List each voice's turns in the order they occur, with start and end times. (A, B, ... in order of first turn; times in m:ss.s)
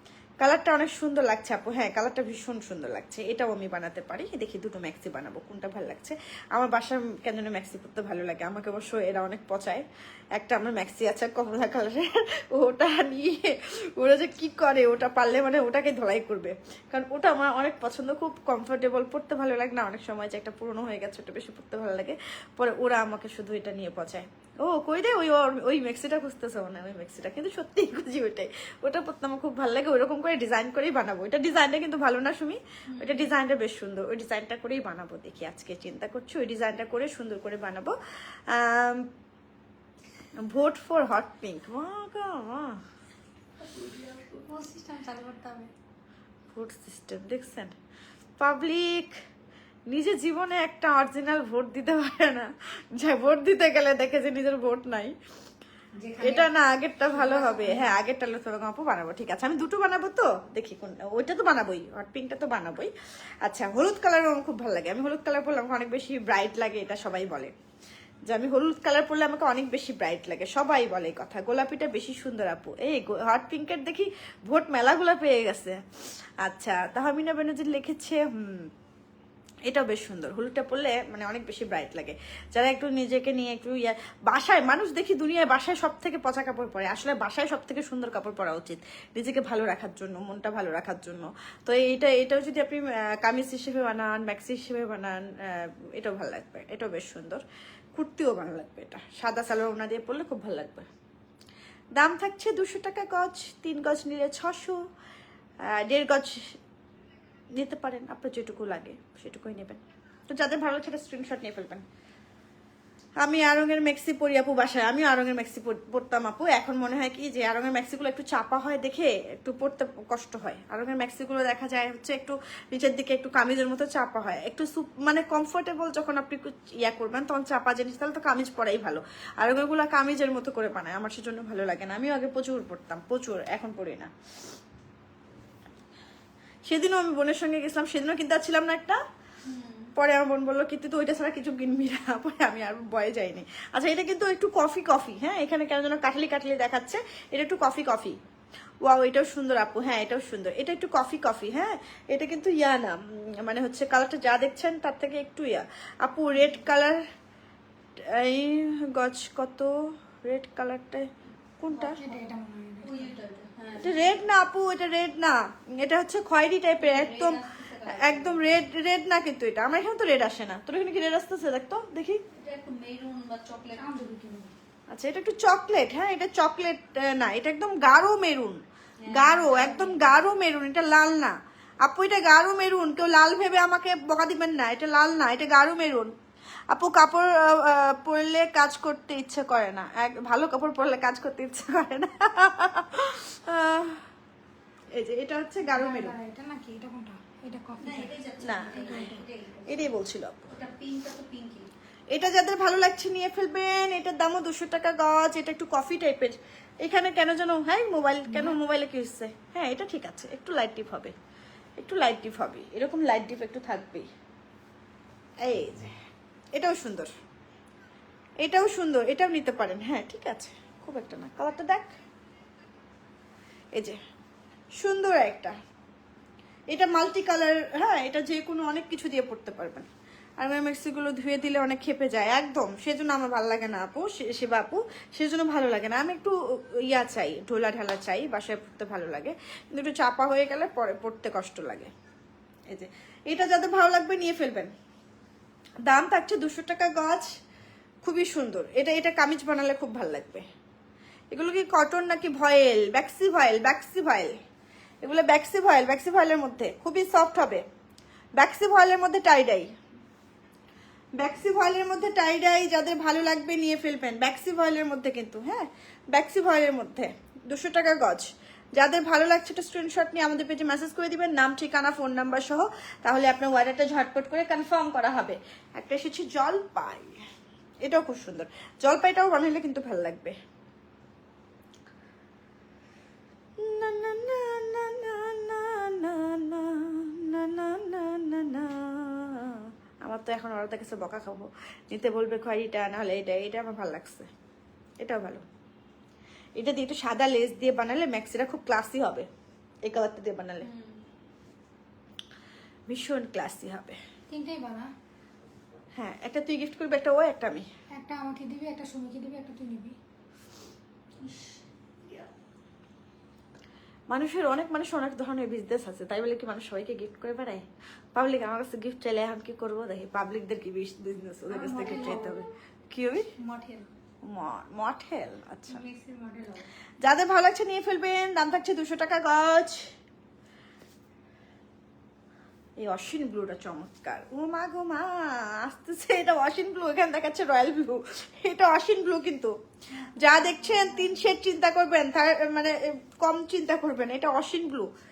0:00.4-0:09.8 A
0:10.4-0:37.9 A
0:32.9-0:33.2 B
0:38.5-0:39.1 A
0:40.4-0:42.8 A
0:43.7-0:45.7 C
0:46.5-0:47.7 A
0:48.4-0:49.1 A
0:49.9-0:55.1 A
0:56.2-1:02.9 A
0:57.2-0:57.8 C
1:03.4-1:07.5 A
1:08.3-1:15.8 A
1:16.4-1:18.7 A
1:19.7-1:37.4 A
1:37.9-1:40.9 A
1:42.0-1:44.8 A
1:45.7-1:46.6 A
1:47.6-1:51.8 A
1:53.2-2:14.1 A
2:16.7-2:19.0 A
2:19.4-2:19.9 B
2:20.0-2:28.2 A
2:28.8-2:37.0 A
2:38.1-2:39.7 A
2:40.2-2:41.1 A
2:41.6-2:42.0 A
2:41.7-2:42.2 B
2:42.0-2:43.1 C
2:42.8-2:44.0 B
2:43.8-2:52.2 A
2:46.8-2:48.5 B
2:52.3-2:53.9 B
2:53.8-2:54.5 C
2:54.9-3:06.1 A
2:59.0-3:00.2 B
3:06.7-3:14.0 A
3:15.0-3:16.1 A
3:15.6-3:18.2 C
3:17.8-3:19.9 B
3:18.4-3:19.1 A
3:18.9-3:19.2 C
3:19.7-3:20.5 A
3:20.5-3:21.7 B
3:22.1-3:31.1 A
3:28.3-3:28.6 C
3:31.8-3:34.1 A
3:35.4-3:35.9 A
3:36.5-3:37.1 A
3:38.4-3:41.9 A
3:44.8-3:45.5 A
3:46.7-3:56.3 A
3:56.8-4:01.9 A
4:02.7-4:04.7 A
4:05.9-4:07.3 A
4:08.0-4:10.4 A
4:11.3-4:14.4 A
4:15.0-4:17.6 A
4:18.4-4:19.7 A
4:21.2-4:37.2 A
4:37.8-4:40.4 A
4:43.6-4:54.3 A
4:55.0-4:55.4 A
4:56.6-4:59.3 A
4:59.8-5:00.7 A
5:00.7-5:01.0 B
5:02.9-5:04.0 A
5:04.3-5:04.9 C
5:06.0-5:07.6 A
5:07.9-5:09.9 C
5:11.2-5:11.6 B
5:14.1-5:17.6 A
5:18.1-5:23.3 A
5:21.5-5:22.4 C
5:23.4-5:23.9 C
5:24.2-5:25.8 A
5:25.7-5:26.6 C
5:27.0-5:29.8 A
5:32.8-5:39.5 A
5:40.0-5:41.2 B
5:40.2-5:44.9 A